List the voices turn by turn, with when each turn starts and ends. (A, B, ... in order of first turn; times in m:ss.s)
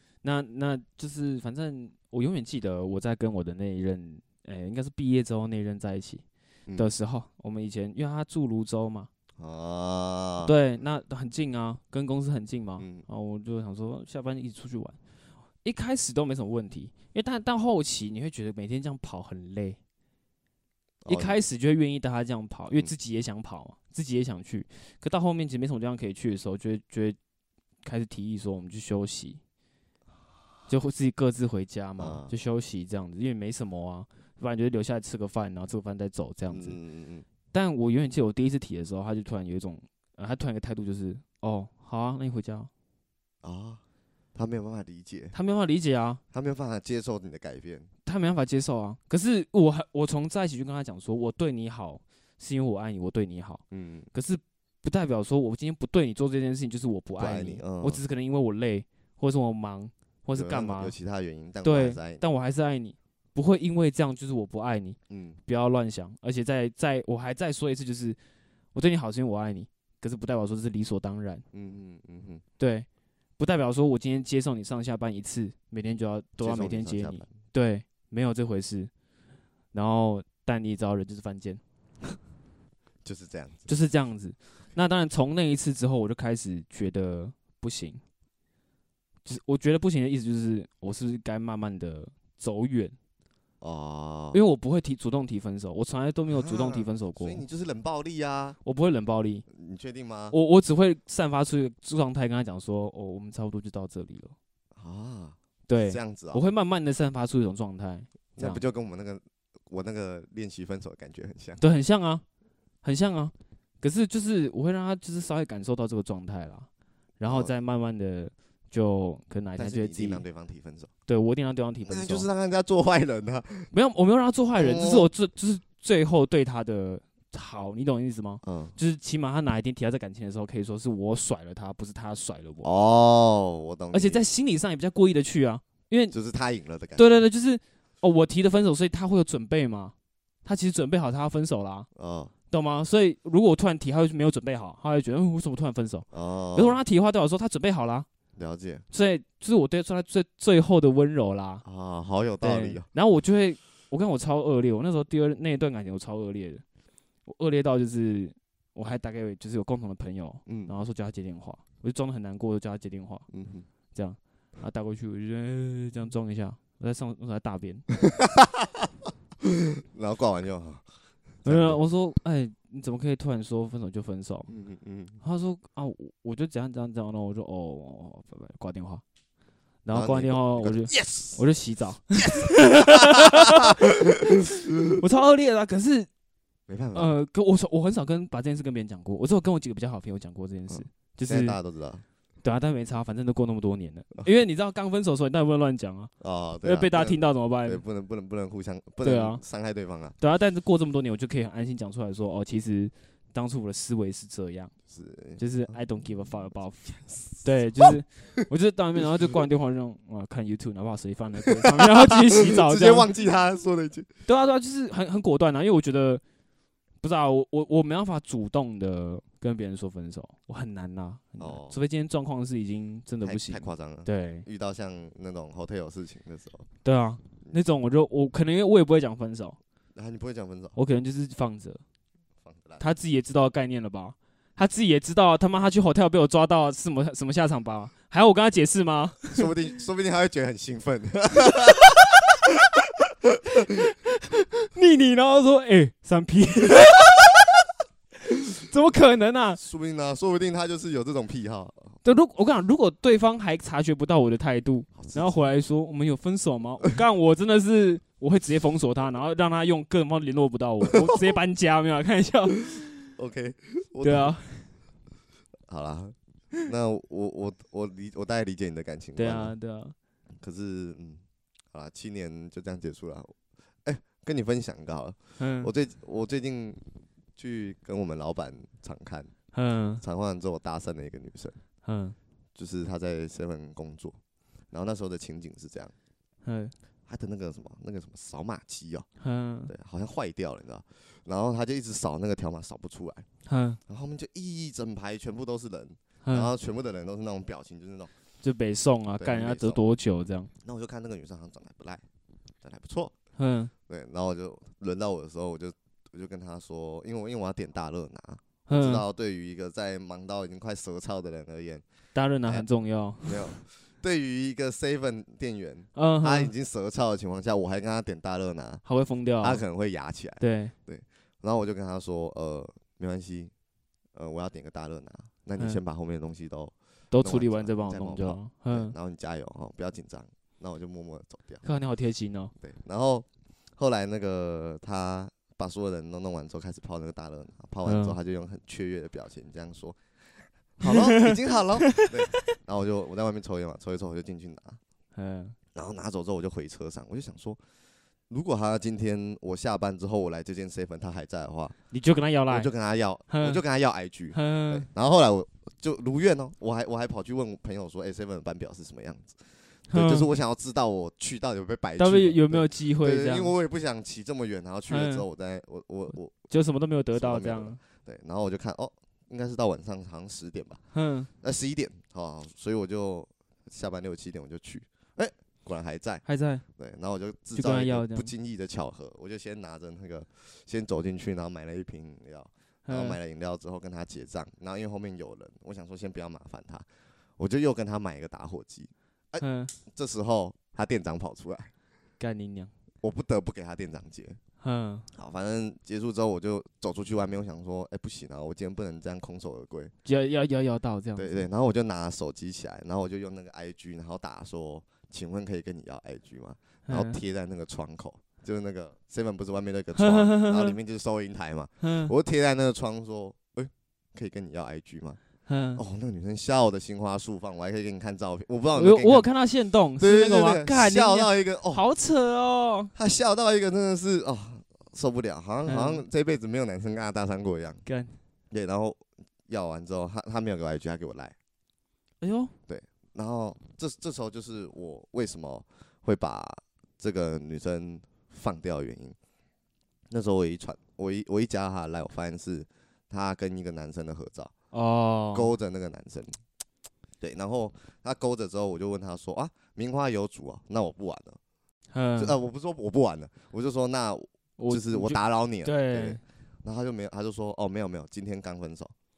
0:00.2-0:06.2 A
0:06.8-0:09.1 A
0:09.4-0:10.5 B
0:10.4-0:15.0 A
0:12.8-0:13.0 B
0:15.6-0:19.8 A
0:21.0-0:21.4 B
0:21.1-0:27.2 A
0:27.8-0:29.4 A
0:30.7-0:36.8 A
0:32.0-0:32.3 B
0:36.5-0:37.3 B
0:37.5-0:42.7 A
0:43.4-0:43.8 B
0:44.4-0:45.4 B
0:45.3-0:46.2 A
0:46.3-0:47.9 B
0:48.0-0:53.6 A
0:53.7-0:54.1 B
0:54.1-1:01.0 A
0:57.2-0:58.0 B
1:00.3-1:02.2 B
1:01.6-1:08.2 A
1:05.1-1:05.4 B
1:08.7-1:11.4 A
1:11.5-1:12.4 B
1:12.6-1:12.9 A
1:13.4-1:18.9 A
1:16.4-1:17.3 B
1:19.7-1:21.6 A
1:23.0-1:23.7 B
1:23.7-1:28.0 A
1:29.2-1:33.0 A
1:33.6-1:34.4 B
1:34.3-1:37.4 A
1:36.3-1:38.6 B
1:38.6-1:39.4 A
1:39.5-1:40.4 B
1:40.3-1:44.4 A
1:44.8-1:46.4 B
1:45.7-1:48.6 A
1:48.4-1:51.6 B
1:51.6-1:52.2 A
1:52.8-1:56.7 A
1:57.2-2:00.2 A
1:57.2-1:57.5 B
1:59.6-2:00.9 B
2:01.1-2:02.3 A
2:01.9-2:03.7 B
2:03.7-2:12.7 A
2:04.6-2:05.1 B
2:08.4-2:08.8 B
2:12.6-2:14.2 B
2:13.9-2:16.1 A
2:16.1-2:17.2 B
2:17.0-2:21.9 A
2:22.0-2:22.3 B
2:22.5-2:28.1 A
2:26.1-2:26.8 B
2:28.4-2:28.8 B
2:28.9-2:31.6 A
2:31.6-2:32.9 B
2:32.4-2:36.6 A
2:37.3-2:43.3 A
2:40.5-2:40.7 B
2:43.3-2:43.7 B
2:43.9-2:47.9 A
2:48.0-2:48.9 B
2:49.4-2:50.8 B
2:51.4-2:51.8 B
2:51.4-2:54.5 A
2:54.5-2:55.2 B
2:55.2-2:59.0 A
2:59.8-3:06.1 A
2:59.9-3:01.4 B
3:02.2-3:04.0 B
3:06.7-3:07.1 B
3:06.9-3:11.6 A
3:10.7-3:12.0 B
3:12.4-3:16.1 A
3:16.2-3:20.2 B
3:16.6-3:17.8 A
3:19.0-3:19.4 A
3:20.2-3:24.7 A
3:24.9-3:25.8 B
3:25.4-3:33.1 A
3:26.9-3:28.0 B
3:31.6-3:34.1 B
3:34.3-3:36.2 A
3:37.0-3:44.5 A
3:41.4-3:41.8 B
3:43.2-3:46.7 B
3:46.8-3:49.6 A
3:50.0-3:50.8 B
3:50.8-3:51.8 A
3:52.4-3:52.8 B
3:52.8-3:59.5 A
3:59.3-4:03.7 B
4:03.7-4:07.3 A
4:08.3-4:09.6 A
4:09.6-4:12.0 B
4:12.0-4:23.1 A
4:15.0-4:15.4 B
4:23.2-4:24.4 B
4:24.0-4:24.7 A
4:25.7-4:29.6 B
4:29.2-4:30.0 A
4:30.4-4:31.2 B
4:31.7-4:36.8 B
4:35.4-4:35.7 A
4:37.4-4:39.3 B
4:39.5-4:40.0 A
4:40.0-4:41.6 B
4:41.8-4:42.2 A
4:42.6-4:44.2 B
4:44.7-4:45.9 B
4:46.4-4:46.7 A
4:47.1-4:49.1 B
4:49.2-4:49.7 A
4:49.7-4:53.3 B
4:53.5-4:53.8 A
4:53.9-4:58.1 B
4:56.2-4:56.5 A
4:58.4-5:00.5 A
4:59.2-4:59.8 B
5:00.6-5:02.0 B
5:02.6-5:03.1 B
5:03.4-5:03.7 A
5:03.9-5:11.8 B
5:08.7-5:09.0 A
5:12.1-5:13.5 A
5:13.3-5:18.8 B
5:16.0-5:16.5 A
5:18.8-5:19.6 A
5:19.4-5:23.5 B
5:20.4-5:20.7 A
5:24.2-5:31.6 B
5:27.1-5:28.9 A
5:31.6-5:32.5 A
5:32.6-5:44.8 B
5:37.8-5:38.2 A
5:40.8-5:42.4 A
5:45.2-5:45.6 A
5:45.8-5:47.6 B
5:48.3-5:51.8 B
5:51.9-5:52.7 A
5:52.5-6:06.4 B
5:53.3-5:53.6 A
5:54.3-5:54.9 A
5:59.9-6:00.3 A
6:02.0-6:03.5 A
6:04.9-6:05.2 A
6:06.5-6:07.8 A
6:07.1-6:10.8 B
6:10.9-6:11.3 A
6:11.4-6:16.2 B
6:16.2-6:16.6 A
6:16.8-6:26.9 B
6:17.5-6:18.3 A
6:22.9-6:23.2 A
6:27.4-6:31.7 B
6:29.4-6:29.8 A
6:32.2-6:32.7 A
6:33.0-6:34.4 B
6:34.6-6:35.1 A
6:35.1-6:39.9 B
6:40.0-6:41.5 A
6:41.2-6:55.2 B
6:46.9-6:47.2 A
6:50.0-6:50.8 A
6:51.8-6:52.1 A
6:55.5-6:55.8 A
6:55.8-6:59.3 B
6:58.8-7:02.9 A
7:00.0-7:01.8 B
7:03.0-7:07.8 B
7:05.6-7:06.0 A
7:07.9-7:08.2 A
7:08.5-7:11.4 B
7:12.2-7:12.5 A
7:12.7-7:19.2 B
7:20.1-7:24.5 B
7:24.7-7:25.5 A
7:25.3-7:26.4 B
7:27.2-7:31.4 B
7:31.9-7:32.4 A
7:32.2-7:38.9 B
7:34.6-7:36.2 A